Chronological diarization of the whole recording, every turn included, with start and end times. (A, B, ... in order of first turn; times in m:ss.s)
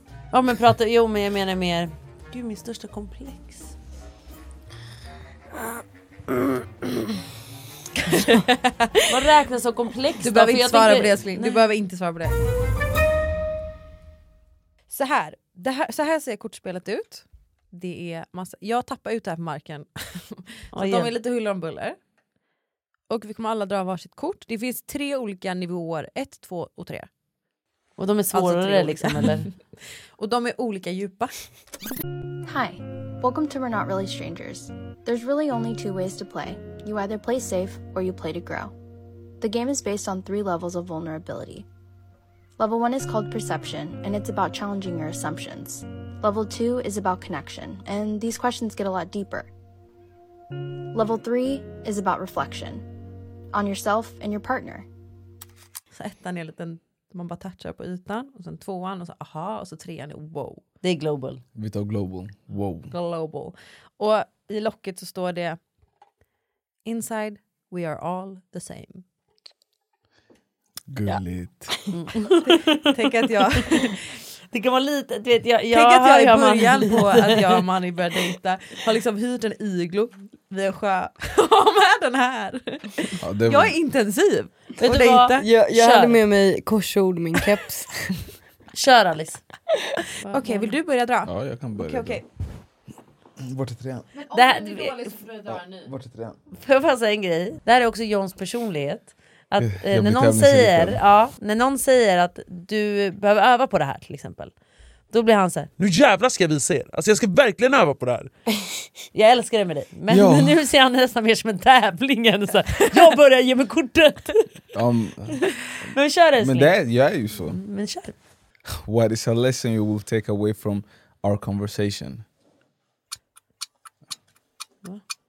0:00.3-0:03.7 A
0:08.0-0:09.0 B
0:09.1-0:11.7 A
0:10.2-0:12.3 B
0:14.9-0:22.0 B
0:20.7-0:21.1 A
0:23.1-0:27.1 B
0:28.0-0:29.5 A
0:28.3-0:29.5 B
0:30.2-0:31.3 B
0:32.4-0:38.7 C
0:39.4-0:41.6 C
0:42.6-0:49.5 C
0:50.9-0:52.8 C
0:53.5-0:54.8 C
0:55.9-1:00.6 B
1:00.8-1:01.4 A
1:01.6-1:02.9 D
1:02.9-1:05.6 B
1:06.8-1:09.0 B
1:10.9-1:11.7 D
1:11.9-1:13.8 A
1:12.4-1:14.0 B
1:14.5-1:17.6 A
1:15.7-1:25.5 B
1:23.2-1:23.8 D
1:24.8-1:26.2 A
1:25.4-1:28.1 E
1:28.7-1:29.4 A
1:30.2-1:30.8 A
1:30.2-1:32.2 B
1:31.2-1:32.2 D
1:33.4-1:34.1 D
1:34.2-1:35.9 B
1:34.3-1:35.2 A
1:35.5-1:36.4 D
1:36.6-1:44.5 A
1:39.6-1:41.0 D
1:45.1-1:45.7 A
1:45.8-1:48.3 F
1:49.1-1:54.4 A
1:50.1-1:50.6 D
1:54.7-1:55.4 D
1:55.9-1:56.8 A
1:56.4-1:57.6 D
1:57.3-1:58.1 A
1:58.8-2:02.2 D